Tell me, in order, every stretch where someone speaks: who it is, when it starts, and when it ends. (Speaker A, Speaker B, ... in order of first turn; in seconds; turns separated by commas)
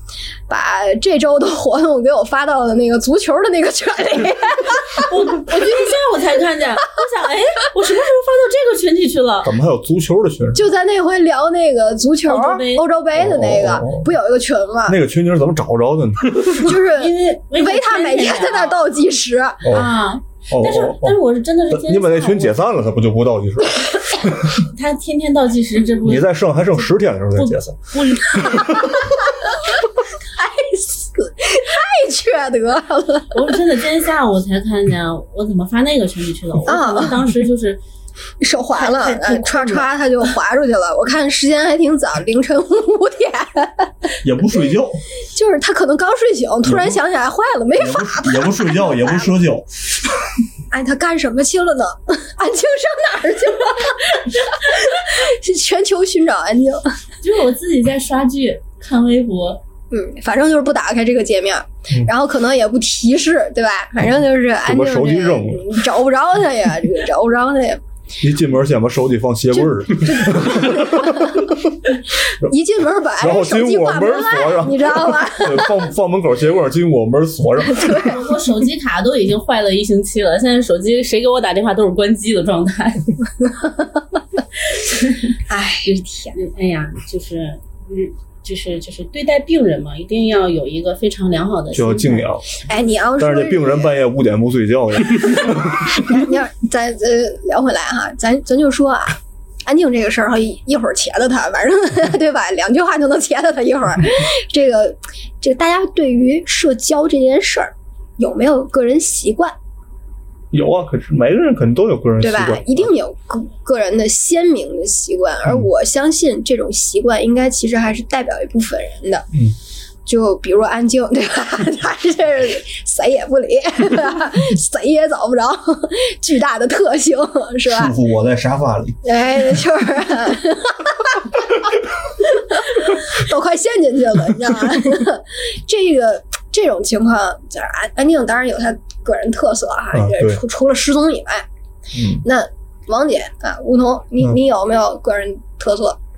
Speaker A: 0.5-5.1, Speaker B: 5.0-9.5, Speaker C: 9.4-10.7, Speaker A: 10.6-15.0, Speaker B: 12.3-12.9, Speaker C: 13.1-14.1, Speaker C: 14.9-16.6, Speaker A: 16.5-19.6, Speaker B: 17.0-18.8, Speaker C: 19.6-19.9, Speaker B: 19.6-22.6, Speaker C: 20.5-24.6, Speaker B: 24.6-28.7, Speaker C: 26.0-29.0, Speaker A: 28.6-29.6, Speaker A: 30.3-33.5, Speaker B: 33.3-37.8, Speaker A: 36.6-37.2, Speaker A: 38.4-43.9, Speaker B: 38.7-39.9, Speaker C: 44.2-45.0, Speaker A: 45.3-49.3, Speaker C: 46.6-47.0, Speaker C: 47.8-49.7, Speaker A: 50.7-56.9, Speaker B: 57.2-59.6, Speaker A: 59.9-67.8, Speaker C: 64.6-65.8, Speaker C: 68.2-71.6, Speaker A: 69.5-71.9, Speaker A: 72.4-75.8, Speaker C: 73.2-78.1, Speaker A: 77.6-78.2, Speaker B: 78.0-83.1, Speaker B: 84.7-85.3, Speaker A: 85.5-86.4, Speaker B: 85.9-92.3, Speaker C: 91.7-92.5, Speaker A: 92.6-93.9, Speaker C: 93.2-96.0, Speaker A: 96.0-109.5, Speaker C: 110.5-112.9, Speaker A: 112.2-119.3, Speaker A: 120.1-127.9, Speaker C: 127.7-129.0, Speaker A: 129.0-131.7, Speaker A: 132.2-141.5, Speaker C: 139.9-140.4, Speaker C: 141.9-142.2, Speaker A: 142.2-146.0